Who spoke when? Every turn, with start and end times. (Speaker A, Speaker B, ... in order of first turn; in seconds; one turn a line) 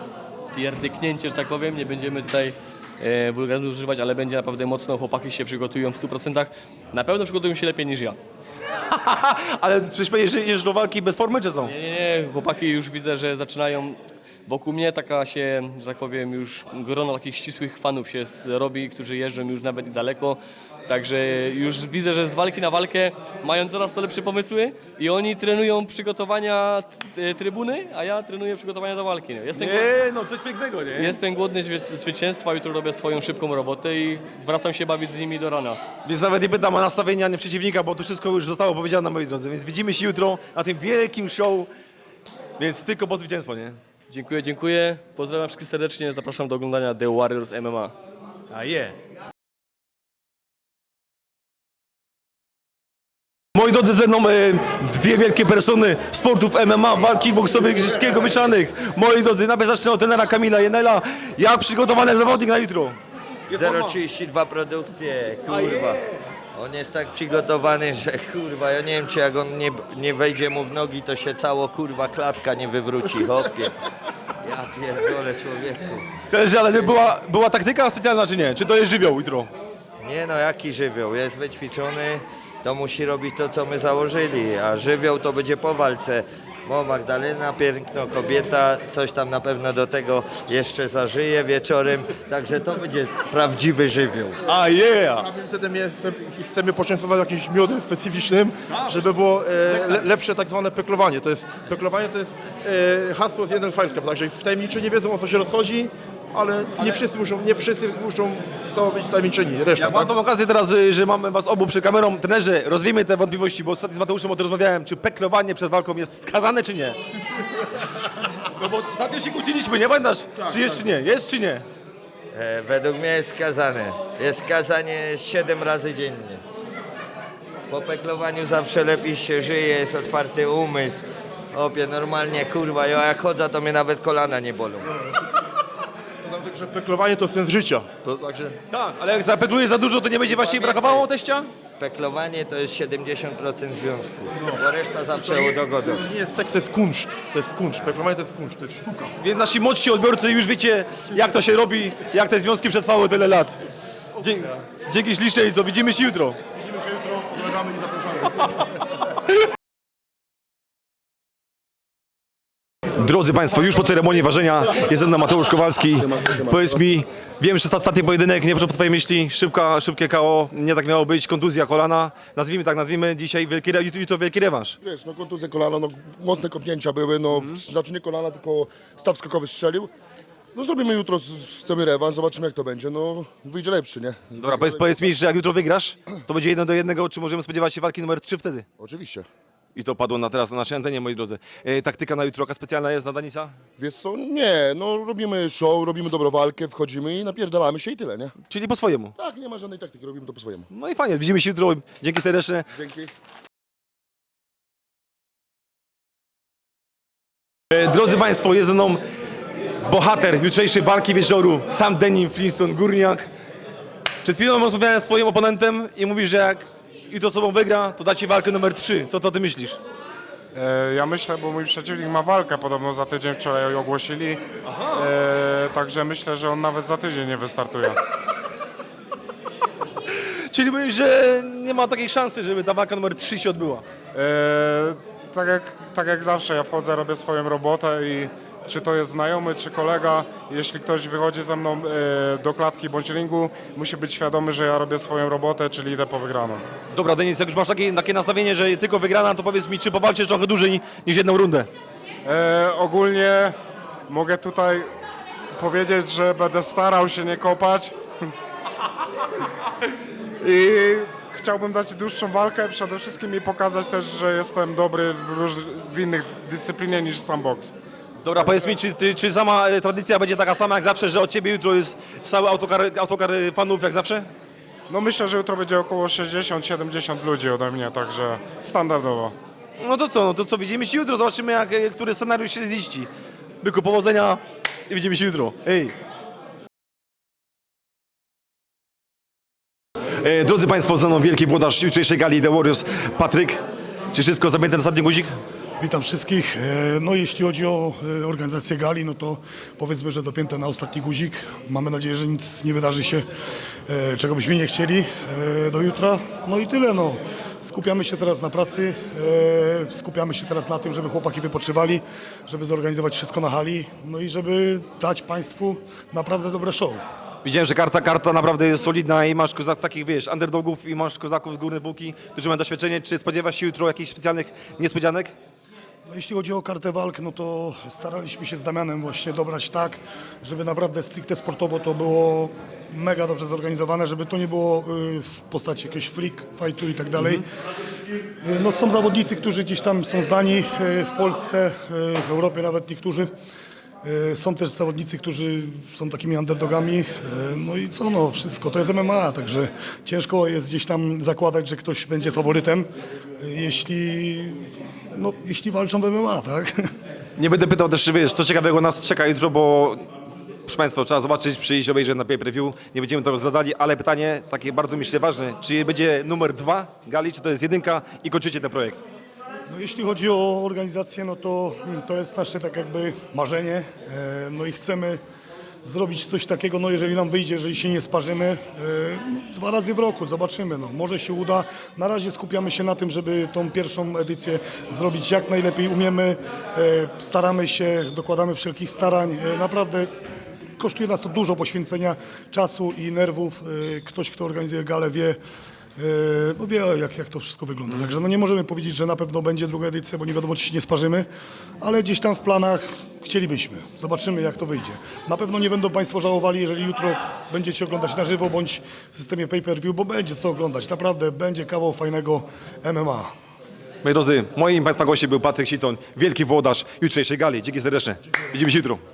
Speaker A: 0.5-8.2
Speaker B: 8.7-11.7
Speaker A: 11.6-29.9
Speaker B: 29.5-31.2
Speaker A: 31.0-35.8
Speaker B: 36.0-41.7
Speaker B: 42.6-43.8
Speaker A: 44.1-47.9
Speaker B: 48.5-49.0
Speaker B: 53.5-63.0
Speaker C: 63.5-66.0
Speaker B: 63.5-64.0
Speaker B: 65.6-65.8
Speaker C: 66.5-73.8
Speaker C: 74.4-76.1
Speaker B: 76.3-79.5
Speaker C: 80.0-94.4
Speaker B: 94.5-95.2
Speaker D: 94.5-110.1
Speaker B: 98.7-99.0
Speaker B: 99.7-100.1
Speaker B: 109.7-117.0
Speaker B: 118.5-121.7
Speaker C: 122.3-126.4
Speaker C: 127.7-134.9
Speaker D: 136.2-138.6
Speaker B: 138.7-141.5
Speaker C: 140.2-141.1
Speaker C: 141.8-146.1
Speaker D: 145.2-149.1
Speaker B: 149.2-153.6
Speaker B: 154.2-156.4
Speaker D: 156.6-158.5
Speaker B: 162.9-174.8
Speaker E: 166.0-166.8
Speaker E: 174.8-179.9
Speaker B: 177.3-177.6
Speaker E: 180.5-185.1
Speaker B: 184.3-188.7
Speaker E: 188.8-189.3
Speaker B: 189.8-193.6
Speaker E: 193.8-198.3
Speaker B: 198.4-199.1
Speaker E: 199.2-200.7
Speaker B: 200.7-202.7
Speaker E: 202.7-203.1
Speaker B: 207.7-209.0
Speaker B: 209.8-213.3
Speaker B: 214.2-219.8
Speaker F: 220.6-224.4
Speaker B: 224.7-225.1
Speaker F: 224.9-228.0
Speaker B: 230.1-233.8
Speaker F: 234.1-246.6
Speaker B: 246.9-251.7
Speaker F: 252.3-253.5
Speaker F: 254.1-254.9
Speaker F: 255.6-257.9
Speaker F: 260.4-267.7
Speaker B: 268.2-274.3
Speaker F: 268.4-268.7
Speaker F: 274.9-279.3
Speaker B: 279.8-283.1
Speaker B: 283.6-285.9
Speaker B: 290.2-295.3
Speaker G: 295.8-303.2
Speaker G: 303.9-317.0
Speaker B: 317.4-325.3
Speaker G: 326.1-337.5
Speaker G: 338.2-343.3
Speaker G: 344.0-352.9
Speaker G: 353.4-354.6
Speaker G: 355.1-356.8
Speaker B: 357.4-360.0
Speaker B: 360.6-369.0
Speaker G: 369.7-375.2
Speaker G: 375.8-390.1
Speaker G: 390.8-395.4
Speaker G: 396.0-401.3
Speaker G: 401.8-413.3
Speaker B: 414.0-419.0